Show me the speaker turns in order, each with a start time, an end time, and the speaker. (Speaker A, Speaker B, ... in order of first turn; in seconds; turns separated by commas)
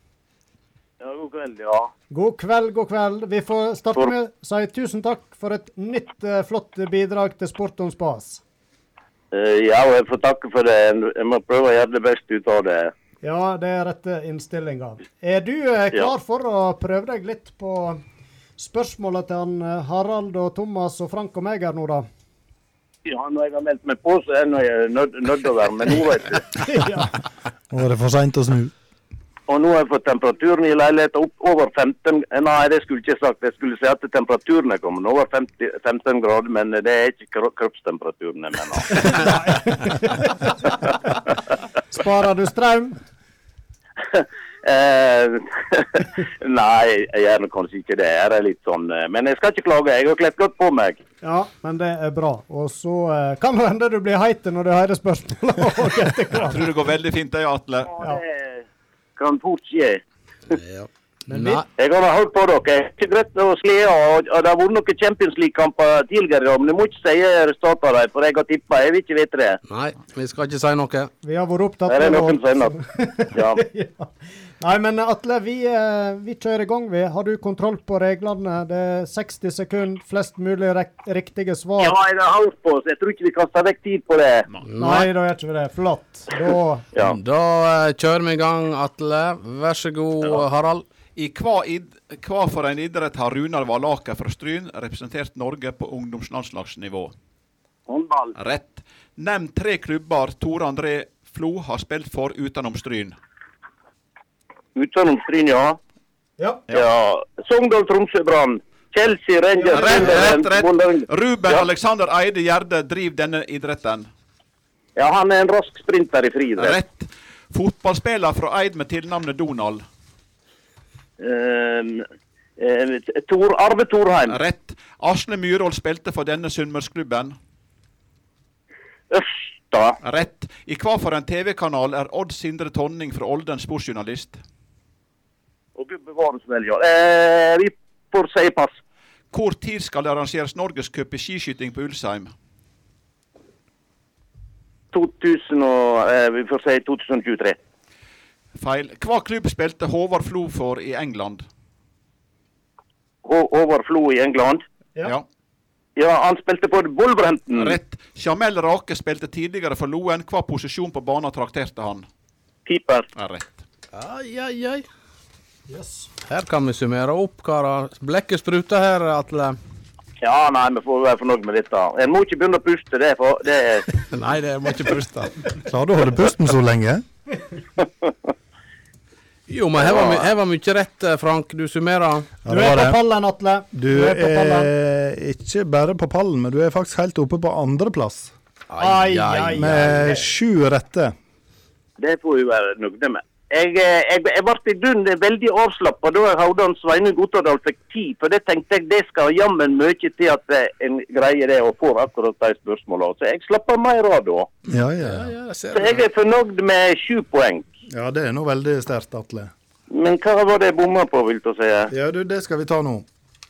Speaker A: 1.0-1.9, Speaker B: 2.1-8.4, Speaker A: 9.3-12.9, Speaker B: 13.2-18.0, Speaker B: 18.6-22.1, Speaker A: 23.1-26.4, Speaker B: 26.6-27.1, Speaker C: 27.7-28.7, Speaker A: 29.5-39.2, Speaker B: 39.0-41.1, Speaker B: 41.9-43.0, Speaker A: 44.1-51.0, Speaker B: 51.2-56.6, Speaker D: 56.3-57.9, Speaker A: 57.9-58.6, Speaker A: 59.2-60.0, Speaker E: 60.5-61.6, Speaker B: 61.3-61.6, Speaker A: 61.8-69.6, Speaker E: 69.7-71.1, Speaker B: 71.2-82.0, Speaker A: 71.9-72.8, Speaker A: 73.3-73.6, Speaker A: 81.8-84.5, Speaker E: 84.6-85.1, Speaker B: 84.8-86.8, Speaker E: 87.0-90.8, Speaker D: 91.2-97.1, Speaker A: 97.9-98.3, Speaker D: 98.3-103.2, Speaker A: 104.8-105.8, Speaker B: 106.4-106.6, Speaker A: 106.7-111.6, Speaker B: 109.7-110.2, Speaker D: 109.7-114.1, Speaker A: 115.0-116.7, Speaker D: 116.6-119.8, Speaker A: 121.2-122.0, Speaker A: 122.6-124.3, Speaker D: 124.2-127.3, Speaker A: 129.1-130.0, Speaker D: 130.0-134.4, Speaker A: 135.8-138.8, Speaker D: 139.3-142.3, Speaker A: 144.9-147.6, Speaker D: 148.6-151.4, Speaker A: 153.2-154.6, Speaker A: 156.0-157.8, Speaker D: 157.5-162.1, Speaker A: 162.7-163.1, Speaker D: 163.1-163.6, Speaker E: 163.9-164.8, Speaker B: 165.7-166.1, Speaker E: 166.3-169.6, Speaker A: 170.2-173.9, Speaker E: 173.9-175.5, Speaker C: 175.6-177.0, Speaker E: 179.5-182.4, Speaker C: 182.4-183.0, Speaker B: 182.5-184.7, Speaker C: 183.7-188.3, Speaker E: 188.7-190.2, Speaker B: 188.8-190.2, Speaker C: 189.6-191.1, Speaker A: 192.0-204.5, Speaker C: 204.7-205.3, Speaker E: 205.0-206.0, Speaker A: 205.7-207.7, Speaker C: 207.9-209.5, Speaker A: 209.9-211.9, Speaker C: 211.9-213.1